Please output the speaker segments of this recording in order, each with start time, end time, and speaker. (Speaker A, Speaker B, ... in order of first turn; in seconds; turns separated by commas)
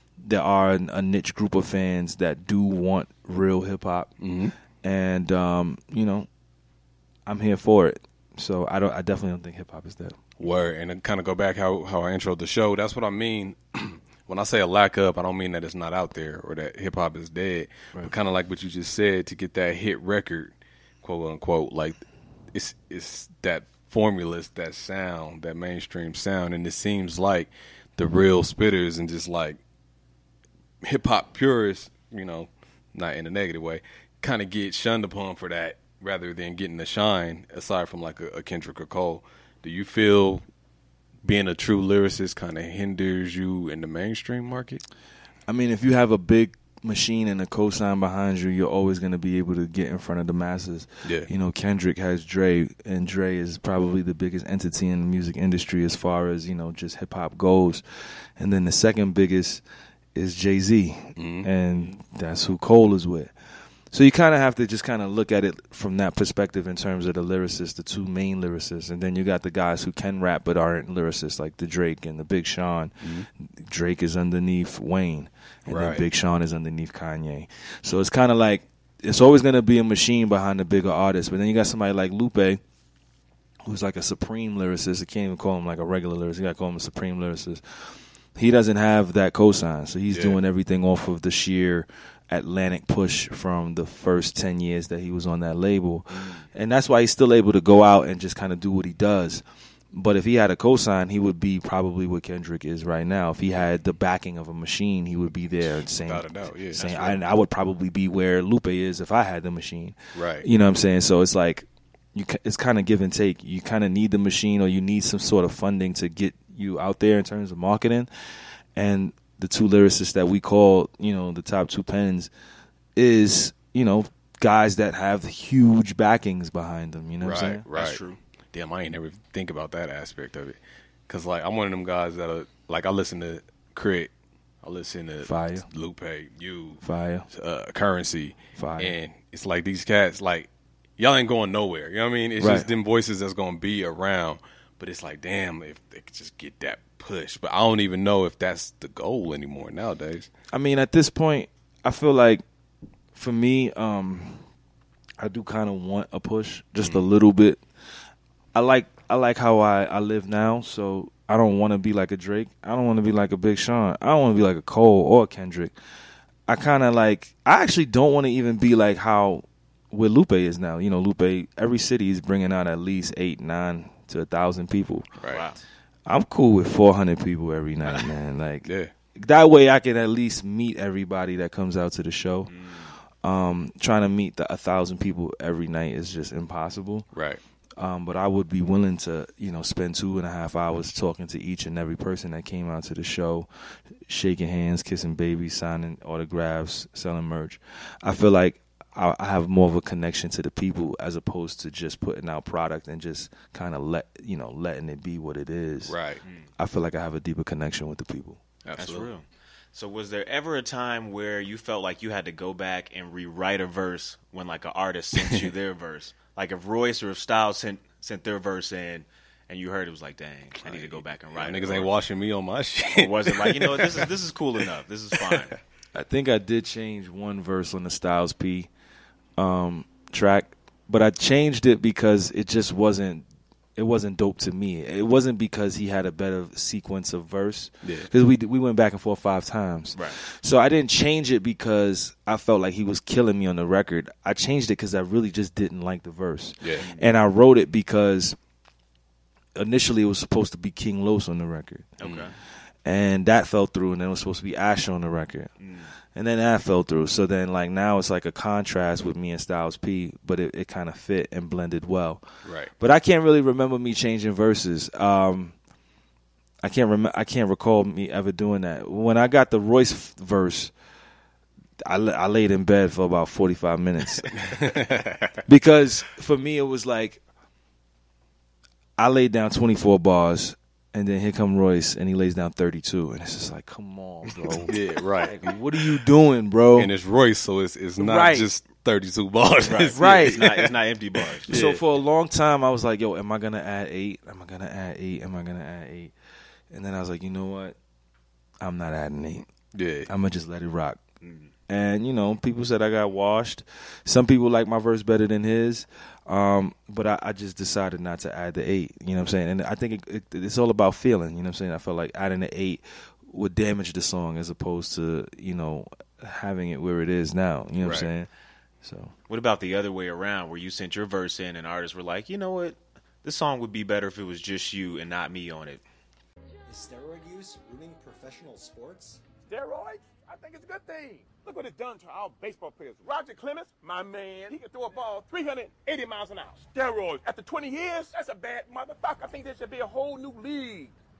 Speaker A: 0.2-4.1, Speaker B: 4.2-4.5, Speaker A: 4.8-6.3, Speaker A: 7.2-10.2, Speaker B: 10.4-29.6, Speaker B: 30.8-40.4, Speaker B: 41.2-44.8, Speaker A: 45.5-57.8, Speaker B: 51.0-51.3, Speaker A: 58.4-59.6, Speaker A: 60.1-63.3, Speaker B: 61.1-61.5, Speaker A: 63.9-82.6, Speaker B: 73.0-73.3, Speaker B: 75.7-76.0, Speaker A: 83.6-118.1, Speaker B: 90.1-90.4, Speaker C: 96.1-96.4, Speaker B: 105.8-107.2, Speaker B: 110.1-110.5, Speaker A: 118.7-122.3, Speaker A: 123.0-127.6, Speaker B: 127.2-128.0, Speaker C: 127.7-128.2, Speaker B: 128.5-134.1, Speaker B: 134.6-150.3, Speaker A: 135.2-135.7, Speaker A: 136.8-137.3, Speaker A: 138.6-138.9, Speaker A: 142.4-142.7, Speaker A: 150.5-152.4, Speaker A: 153.1-154.4, Speaker A: 155.2-157.6, Speaker A: 158.5-165.7, Speaker A: 166.5-175.1, Speaker C: 175.3-175.6, Speaker A: 176.1-182.5, Speaker B: 178.7-178.9, Speaker C: 182.5-182.9, Speaker A: 183.2-187.1, Speaker B: 187.1-187.4, Speaker A: 187.8-193.5, Speaker A: 194.1-205.9, Speaker B: 205.8-206.2, Speaker A: 206.6-208.4, Speaker B: 208.6-209.1, Speaker C: 208.8-209.2, Speaker C: 209.7-221.9, Speaker B: 220.5-224.1, Speaker C: 222.9-225.5, Speaker B: 225.2-225.5, Speaker A: 225.9-228.7, Speaker A: 229.4-233.2, Speaker A: 233.8-248.4, Speaker B: 237.8-238.1, Speaker C: 246.8-247.1, Speaker A: 249.6-252.0, Speaker C: 252.0-252.3, Speaker A: 252.8-255.5, Speaker C: 255.6-255.9, Speaker A: 256.1-262.2, Speaker B: 262.4-262.7, Speaker A: 262.8-265.5, Speaker A: 266.6-270.7, Speaker A: 271.8-274.3, Speaker B: 274.4-275.4, Speaker A: 275.4-277.2, Speaker A: 279.0-286.9, Speaker B: 284.7-285.4, Speaker B: 286.8-290.7, Speaker A: 288.0-288.5, Speaker C: 289.6-291.5, Speaker A: 289.9-290.5, Speaker B: 291.4-291.8, Speaker A: 291.5-296.1, Speaker A: 296.7-297.8, Speaker A: 298.6-299.5, Speaker B: 299.7-300.1, Speaker A: 300.1-301.0, Speaker C: 301.2-301.5, Speaker A: 301.7-318.3, Speaker B: 317.8-318.1, Speaker A: 318.8-319.1, Speaker C: 319.3-325.8, Speaker D: 326.7-329.2, Speaker E: 329.5-340.9